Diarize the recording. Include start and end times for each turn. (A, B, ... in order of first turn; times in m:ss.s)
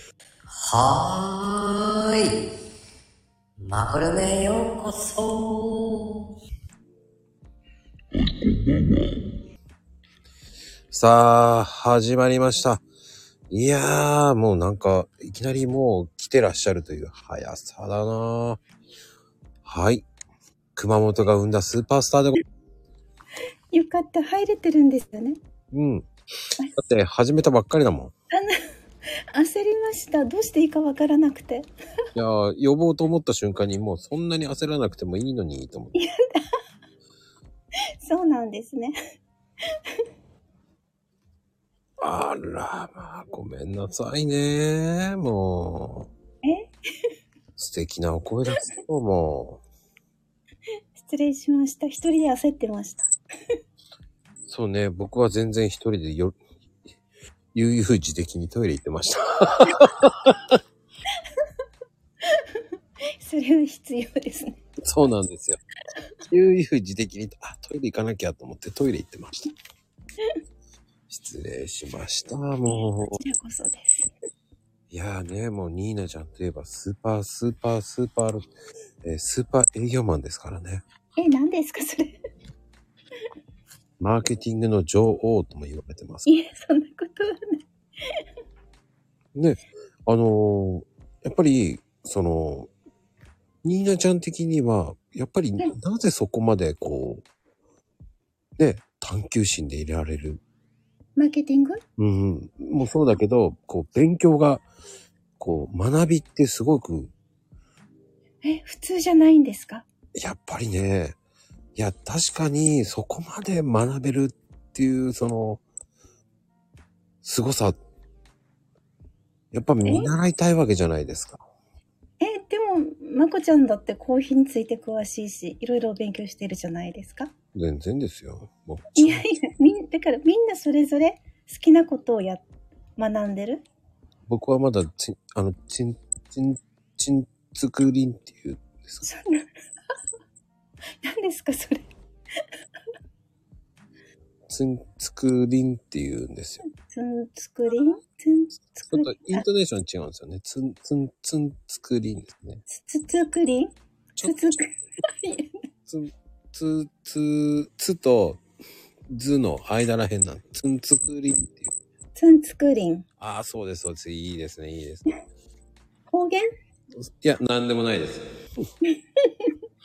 0:00.5-0:02.3 A
0:03.6-0:06.3 A
0:08.4-0:09.1 A
0:10.9-0:12.8 B
0:13.5-0:18.6 B
0:19.6-0:20.0 B
0:20.8-0:22.4 B
0:23.7-0:25.4 C
0:25.7-0:26.1 B
0:26.8-0:28.1 B
0:29.3-0:31.7 C
0:32.1-0:35.9 B
0:35.9-0:36.4 C
0:38.0-0:39.0 C
0:42.0-0:46.1 B
0:46.4-0:46.7 C
0:47.6-0:49.6 B
0:51.0-0:53.1 C
0:54.5-0:56.4 B
0:57.5-1:00.6 B
1:02.3-1:02.6 C
1:03.2-1:04.6 C
1:04.8-1:05.6 B
1:06.3-1:09.5 B
1:11.1-1:13.2 B
1:13.2-1:14.1 C
1:14.9-1:18.5 B
1:19.0-1:20.8 B
1:21.2-1:22.2 C
1:24.0-1:26.3 B
1:26.2-1:27.6 C
1:29.3-1:32.7 B
1:33.6-1:37.2 B
1:38.6-1:40.4 B
1:41.2-1:41.8 C
1:42.0-1:44.6 B
1:45.4-1:47.1 B
1:48.4-1:49.8 C
1:50.2-1:51.2 B
1:51.8-1:55.6 B
1:57.2-1:57.8 B
1:59.5-2:01.4 B
1:59.8-2:00.1 C
2:02.2-2:07.3 C
2:07.5-2:09.2 B
2:09.0-2:12.4 C
2:13.0-2:13.6 C
2:14.3-2:19.0 B
2:19.0-2:19.4 C
2:21.0-2:21.8 C
2:24.5-2:26.6 B
2:26.6-2:29.4 C
2:28.9-2:32.6 B
2:32.7-2:35.5 C
2:34.2-2:34.6 B
2:35.9-2:38.4 B
2:39.1-2:41.7 B
2:42.2-2:43.0 C
2:43.2-2:45.1 B
2:46.1-2:46.4 C
2:47.0-2:48.2 B
2:48.8-2:49.5 C